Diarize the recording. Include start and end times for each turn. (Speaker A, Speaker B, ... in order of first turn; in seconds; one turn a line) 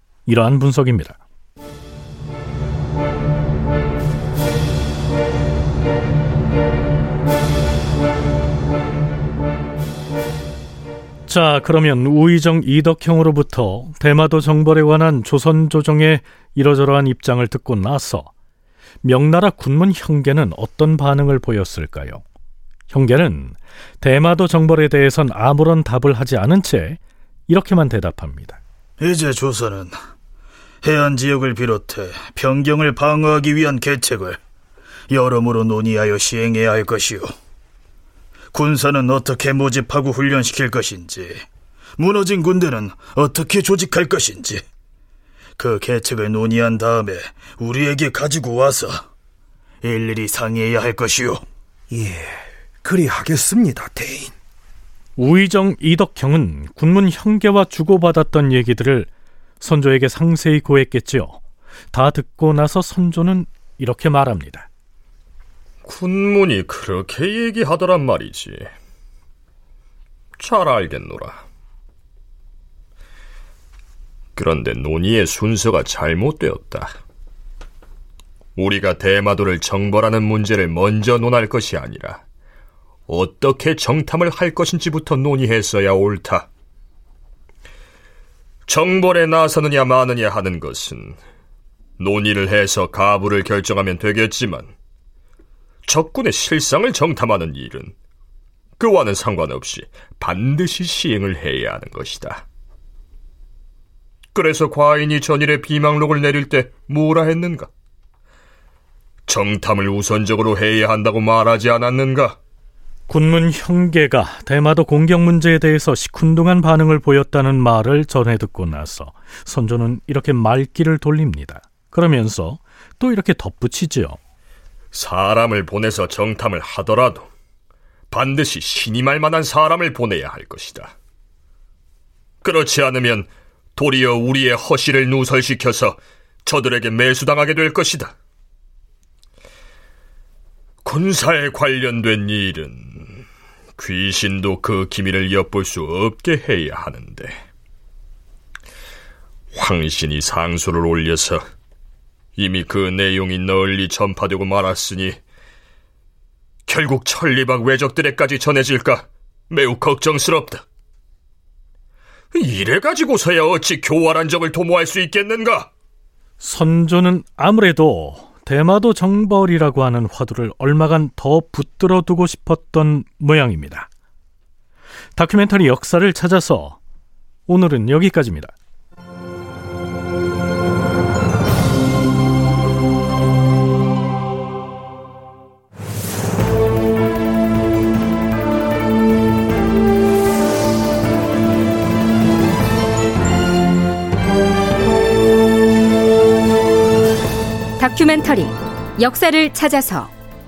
Speaker A: 0.2-1.2
Speaker A: 11.3-18.3
Speaker A: 19.0-22.2
Speaker A: 22.9-28.6
Speaker B: 29.0-29.9
Speaker B: 30.8-34.4
Speaker B: 35.1-37.3
Speaker B: 38.5-41.4
Speaker B: 42.0-44.6
Speaker B: 45.6-49.0
Speaker B: 49.8-51.4
Speaker C: 51.9-54.3
Speaker A: 55.2-61.4
Speaker A: 61.9-64.7
Speaker D: 65.8-68.7
Speaker D: 70.4-71.4
Speaker D: 74.3-76.9
Speaker D: 78.6-82.2
Speaker D: 83.1-86.5
Speaker D: 88.7-91.2
Speaker D: 92.0-94.7
Speaker D: 95.8-97.9
Speaker D: 98.8-102.4
Speaker D: 104.3-107.7
Speaker D: 109.3-112.4
Speaker A: 113.1-124.2
Speaker D: 124.9-127.3
Speaker D: 128.1-130.9
Speaker D: 132.4-138.1
Speaker D: 140.8-143.2
Speaker D: 143.8-147.4
Speaker D: 149.5-151.4
Speaker D: 152.4-155.2
Speaker D: 156.7-160.6
Speaker D: 162.3-165.7
Speaker A: 166.4-173.9
Speaker A: 175.2-176.8
Speaker A: 177.5-178.5
Speaker E: 197.8-200.1